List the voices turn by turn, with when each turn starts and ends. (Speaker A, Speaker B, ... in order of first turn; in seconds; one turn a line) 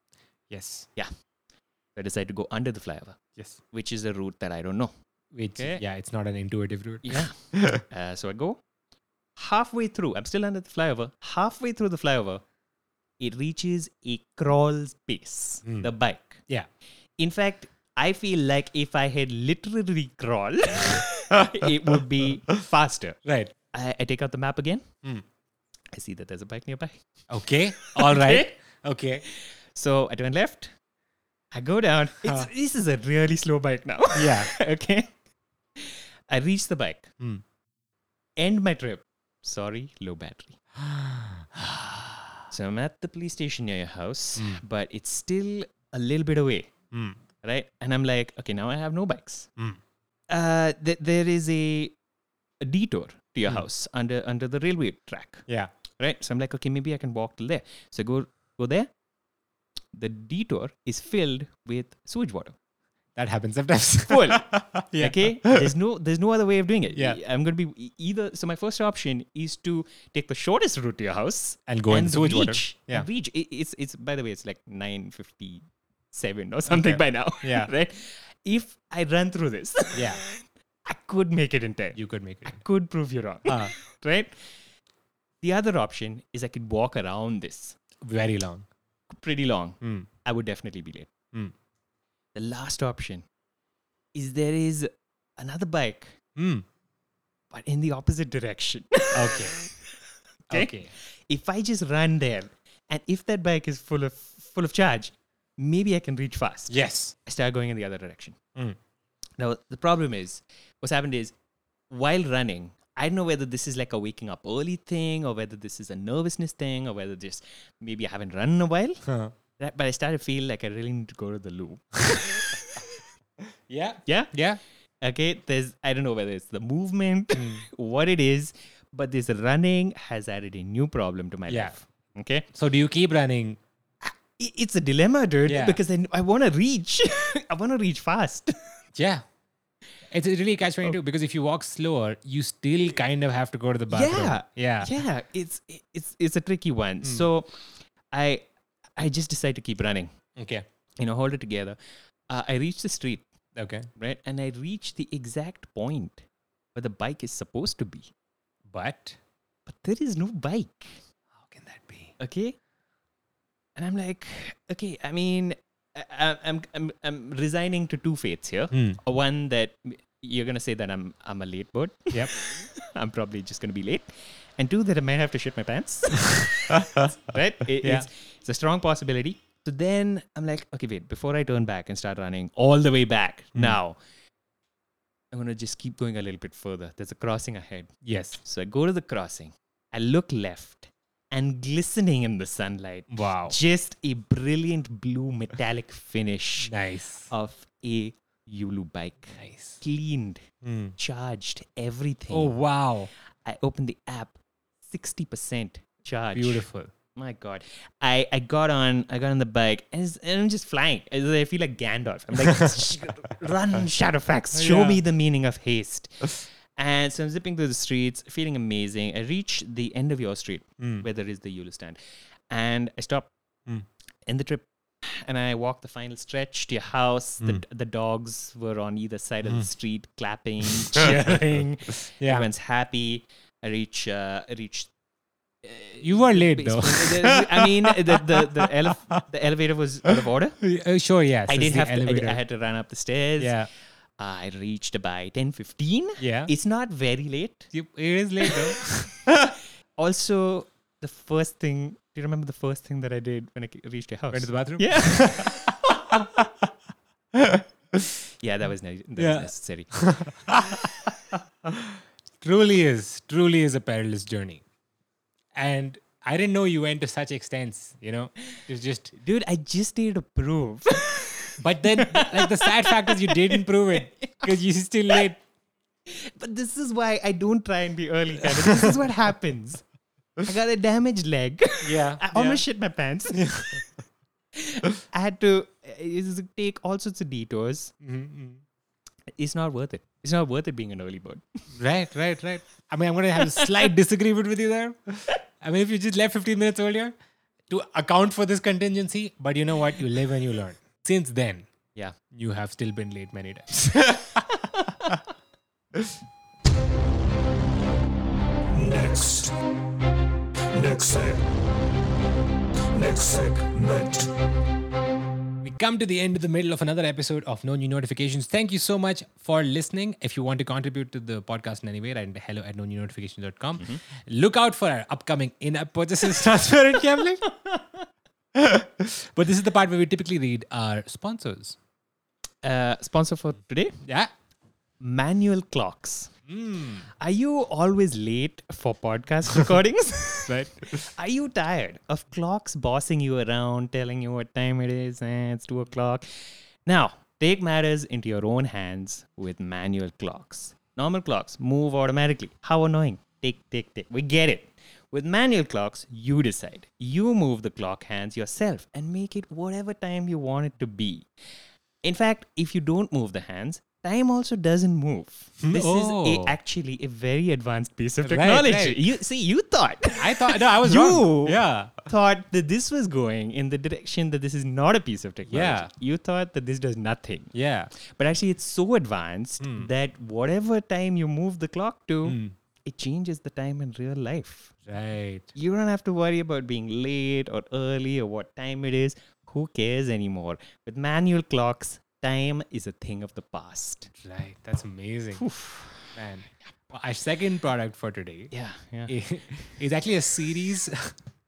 Speaker A: 0.5-0.9
Speaker B: 1.9-4.9
Speaker A: 5.3-7.8
Speaker B: 5.5-5.8
Speaker B: 7.0-8.6
Speaker B: 9.4-12.4
Speaker B: 13.2-16.4
Speaker A: 15.7-15.9
Speaker B: 17.2-23.2
Speaker A: 21.4-21.7
Speaker A: 23.2-23.5
Speaker B: 23.7-24.9
Speaker B: 25.9-27.0
Speaker A: 27.3-29.2
Speaker B: 27.7-28.6
Speaker B: 29.2-30.7
Speaker B: 31.5-35.1
Speaker A: 34.1-34.5
Speaker B: 35.8-37.1
Speaker B: 38.4-40.6
Speaker A: 40.8-42.4
Speaker B: 42.5-46.7
Speaker A: 44.4-44.6
Speaker A: 46.9-47.2
Speaker B: 47.4-49.5
Speaker B: 50.3-52.0
Speaker B: 52.6-55.5
Speaker B: 56.0-58.9
Speaker B: 59.9-62.6
Speaker A: 63.2-65.7
Speaker B: 64.1-84.5
Speaker A: 66.9-67.2
Speaker A: 71.7-73.1
Speaker A: 76.7-77.7
Speaker A: 79.9-80.2
Speaker A: 82.0-82.6
Speaker A: 83.5-83.7
Speaker B: 85.4-87.8
Speaker A: 88.0-88.7
Speaker B: 89.1-91.1
Speaker A: 89.8-90.1
Speaker B: 92.3-93.2
Speaker B: 94.1-96.2
Speaker A: 96.4-96.7
Speaker B: 97.5-99.7
Speaker A: 99.1-99.7
Speaker A: 100.5-100.9
Speaker B: 100.5-108.4
Speaker A: 106.7-107.1
Speaker B: 109.4-111.3
Speaker B: 111.9-119.0
Speaker A: 119.0-119.3
Speaker B: 119.6-122.9
Speaker A: 123.7-124.6
Speaker B: 124.1-124.3
Speaker B: 125.0-132.5
Speaker A: 127.3-127.7
Speaker A: 131.5-131.8
Speaker A: 132.5-133.6
Speaker B: 134.0-138.6
Speaker A: 135.5-135.8
Speaker A: 138.9-139.2
Speaker A: 140.1-144.9
Speaker B: 143.9-150.1
Speaker A: 150.4-150.7
Speaker B: 151.0-151.8
Speaker B: 152.3-153.3
Speaker A: 153.6-153.9
Speaker B: 154.0-158.1
Speaker A: 158.7-159.2
Speaker B: 159.7-161.0
Speaker A: 161.4-162.2
Speaker B: 162.2-162.6
Speaker B: 163.8-184.0
Speaker A: 168.7-169.0
Speaker B: 185.3-196.7
Speaker A: 188.0-188.4
Speaker A: 193.1-193.6
Speaker A: 196.6-197.3
Speaker B: 197.3-200.4
Speaker A: 199.3-199.8
Speaker A: 200.6-200.9
Speaker B: 201.0-202.6
Speaker A: 202.3-203.1
Speaker B: 203.4-222.0
Speaker A: 206.3-206.9
Speaker A: 214.6-215.0
Speaker A: 220.8-221.1
Speaker B: 222.5-223.3
Speaker B: 224.3-234.9
Speaker A: 230.8-231.1
Speaker A: 232.1-232.5
Speaker B: 235.6-240.6
Speaker A: 236.0-239.2
Speaker A: 240.6-242.4
Speaker B: 241.5-243.7
Speaker A: 243.4-243.7
Speaker B: 244.2-247.7
Speaker A: 246.2-246.5
Speaker A: 247.7-249.5
Speaker B: 248.4-248.7
Speaker B: 250.0-256.1
Speaker A: 254.3-256.7
Speaker A: 257.4-258.1
Speaker B: 258.4-260.3
Speaker A: 259.2-261.1
Speaker A: 261.6-264.6
Speaker A: 265.5-269.1
Speaker B: 269.1-274.5
Speaker A: 271.6-275.4
Speaker B: 276.1-279.8
Speaker A: 278.4-278.9
Speaker B: 280.4-283.8
Speaker A: 281.8-282.6
Speaker A: 283.3-283.8
Speaker B: 284.6-287.9
Speaker A: 288.0-288.6
Speaker B: 289.4-291.7
Speaker A: 291.8-297.1
Speaker B: 293.5-293.8
Speaker A: 297.7-301.7
Speaker A: 302.3-305.2
Speaker C: 308.8-309.6
Speaker C: 310.7-311.5
Speaker C: 312.9-314.3
Speaker A: 315.6-327.5
Speaker A: 328.6-331.8
Speaker B: 332.6-334.0
Speaker A: 334.1-334.3
Speaker B: 335.0-336.3
Speaker A: 336.5-337.1
Speaker B: 337.2-361.3
Speaker B: 362.0-384.8
Speaker A: 365.6-366.6
Speaker A: 368.2-369.1
Speaker A: 370.2-372.0
Speaker A: 375.5-375.9
Speaker A: 377.5-377.9
Speaker A: 379.6-379.9
Speaker A: 382.3-382.5
Speaker A: 384.9-385.5
Speaker B: 385.5-394.1
Speaker A: 394.2-398.5
Speaker B: 395.3-396.1
Speaker B: 398.5-399.1
Speaker A: 399.1-401.1